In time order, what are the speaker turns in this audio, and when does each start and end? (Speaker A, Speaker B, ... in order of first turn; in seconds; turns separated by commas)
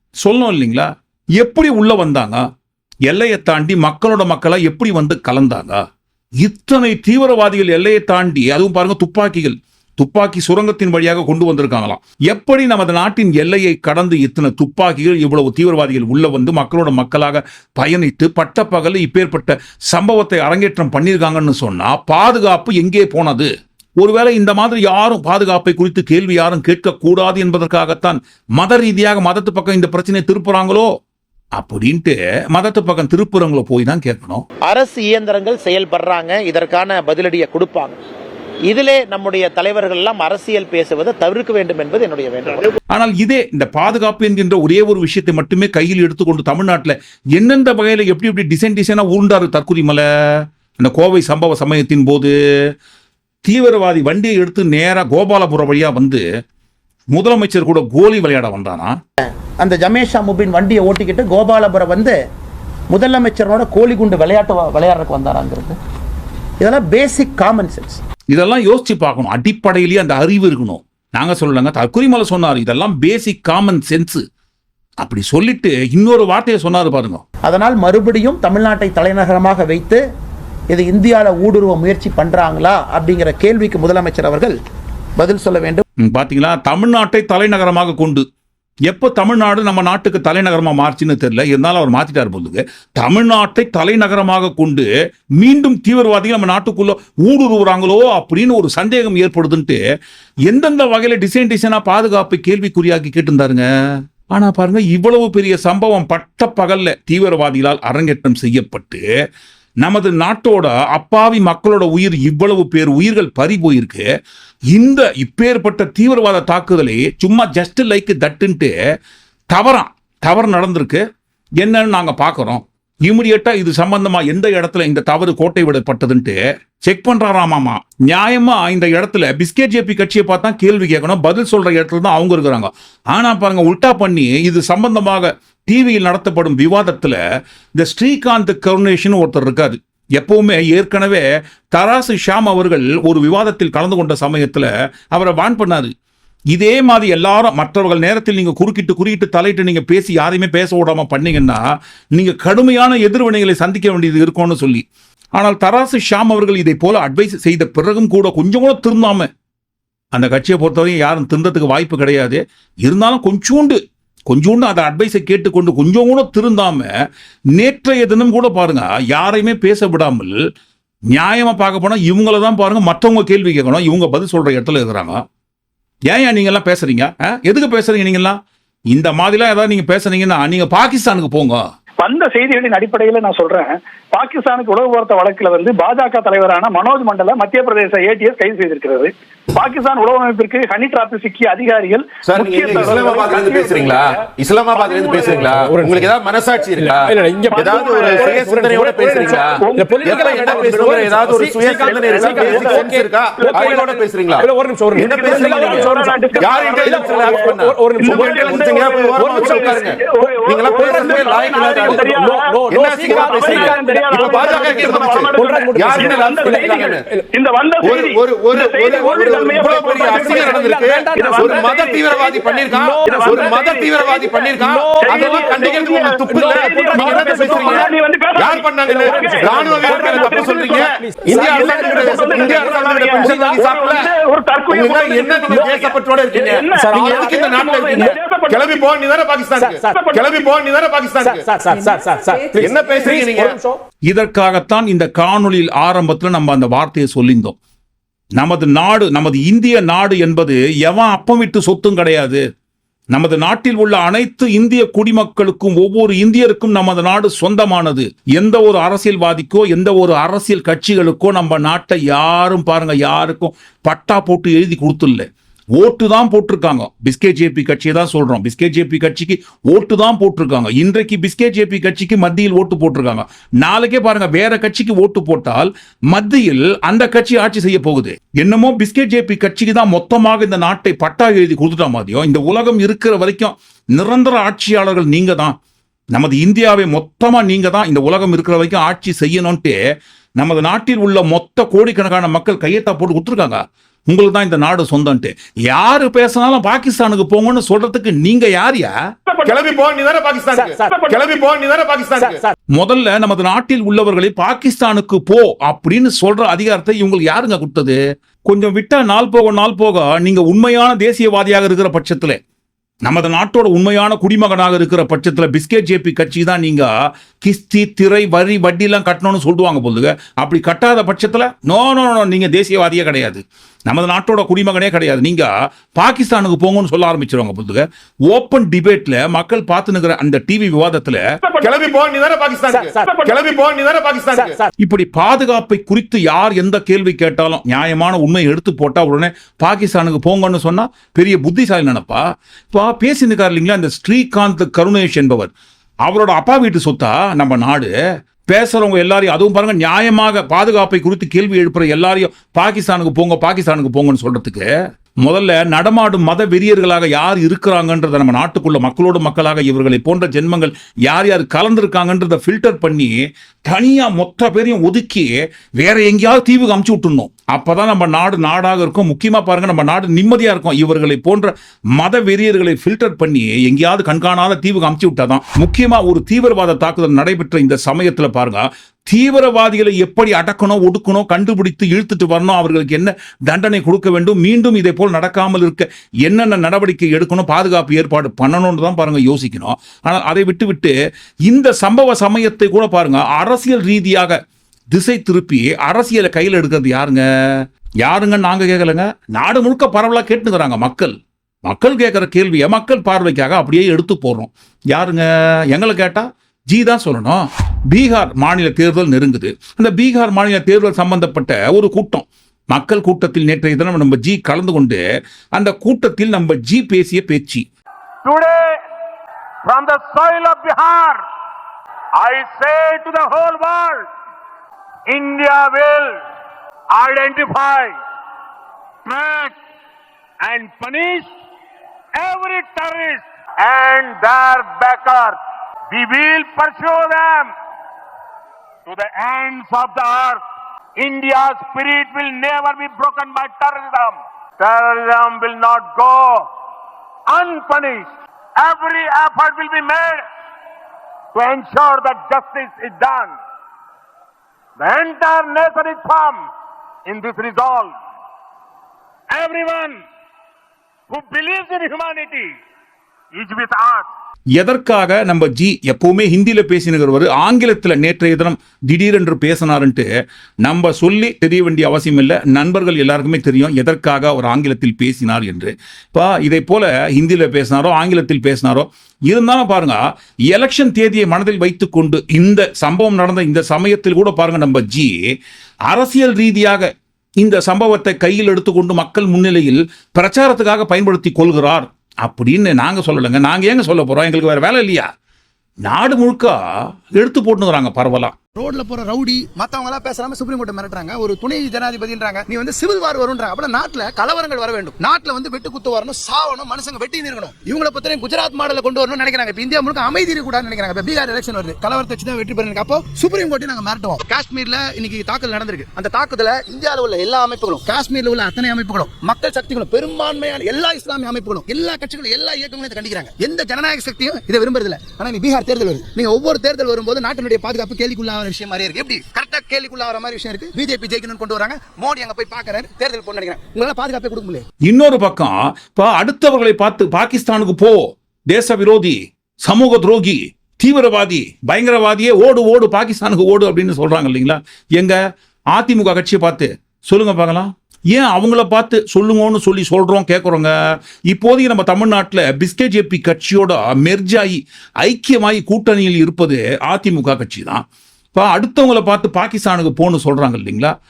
Speaker A: 0.2-2.4, Speaker A: 3.1-5.8, Speaker A: 6.4-30.9, Speaker A: 31.6-34.4, Speaker B: 34.6-38.0, Speaker B: 38.7-42.8, Speaker A: 42.9-50.0, Speaker A: 50.8-52.3, Speaker A: 53.4-56.2, Speaker A: 57.1-59.0, Speaker C: 59.6-62.1, Speaker C: 62.9-65.8, Speaker C: 66.6-68.0, Speaker A: 68.3-74.2, Speaker A: 75.0-77.2, Speaker C: 77.4-80.0, Speaker C: 80.7-84.6, Speaker C: 85.2-85.8, Speaker A: 86.0-88.2, Speaker A: 88.9-94.9, Speaker A: 95.4-99.8, Speaker A: 100.5-103.7, Speaker A: 104.3-109.0, Speaker A: 109.8-114.0, Speaker A: 114.7-118.7, Speaker A: 119.5-121.0, Speaker A: 121.6-137.2, Speaker A: 137.8-145.9, Speaker A: 146.5-151.6, Speaker A: 152.1-154.8, Speaker A: 155.3-159.3, Speaker A: 160.1-166.9, Speaker A: 167.5-170.4, Speaker A: 171.1-175.2, Speaker A: 176.1-178.4, Speaker A: 178.9-181.6, Speaker D: 182.0-195.5, Speaker E: 192.2-217.1, Speaker F: 195.3-196.1, Speaker F: 196.8-217.2, Speaker D: 197.5-198.4, Speaker D: 199.1-201.0, Speaker D: 201.8-203.8, Speaker D: 205.0-238.8, Speaker E: 217.8-234.1, Speaker F: 218.9-221.9, Speaker F: 222.7-223.7, Speaker F: 224.5-227.9, Speaker F: 228.8-233.7, Speaker E: 234.7-241.6, Speaker F: 235.5-235.9, Speaker F: 236.9-238.1, Speaker F: 239.6-239.9, Speaker D: 239.9-240.3, Speaker F: 241.2-243.8, Speaker E: 242.5-243.6, Speaker A: 244.1-247.6, Speaker A: 248.4-252.4, Speaker A: 253.1-285.5, Speaker A: 286.1-289.7, Speaker A: 290.4-298.9, Speaker D: 299.3-299.6, Speaker E: 299.4-302.5, Speaker F: 300.5-301.0, Speaker D: 300.9-301.2, Speaker F: 302.2-302.5, Speaker A: 302.7-312.4, Speaker A: 313.0-316.9, Speaker A: 317.4-331.2, Speaker D: 331.4-331.9, Speaker E: 331.6-334.6, Speaker F: 332.7-333.1, Speaker D: 333.0-333.4, Speaker F: 334.3-334.7, Speaker A: 334.8-345.5, Speaker A: 346.0-347.9, Speaker A: 348.5-354.7, Speaker A: 355.2-390.9, Speaker A: 391.5-394.4, Speaker A: 394.9-415.0, Speaker A: 415.5-417.6, Speaker G: 418.2-418.8, Speaker G: 419.6-421.2, Speaker G: 422.2-424.1, Speaker G: 425.1-426.2, Speaker G: 426.9-427.9, Speaker G: 429.0-429.6, Speaker G: 430.4-431.3, Speaker G: 432.1-435.4, Speaker G: 435.9-437.5, Speaker G: 438.9-440.4, Speaker G: 441.0-446.5, Speaker G: 447.3-450.2, Speaker G: 451.3-453.3, Speaker G: 454.8-456.4, Speaker G: 457.1-457.9, Speaker G: 459.3-460.0, Speaker G: 461.1-462.5, Speaker G: 463.3-464.1, Speaker A: 464.6-470.1, Speaker A: 470.6-485.2, Speaker A: 485.9-486.9, Speaker A: 487.4-495.1, Speaker A: 495.8-496.6, Speaker A: 497.1-498.4, Speaker H: 498.6-534.6, Speaker A: 534.8-545.2, Speaker A: 545.7-550.7, Speaker A: 551.3-557.8, Speaker A: 558.3-560.9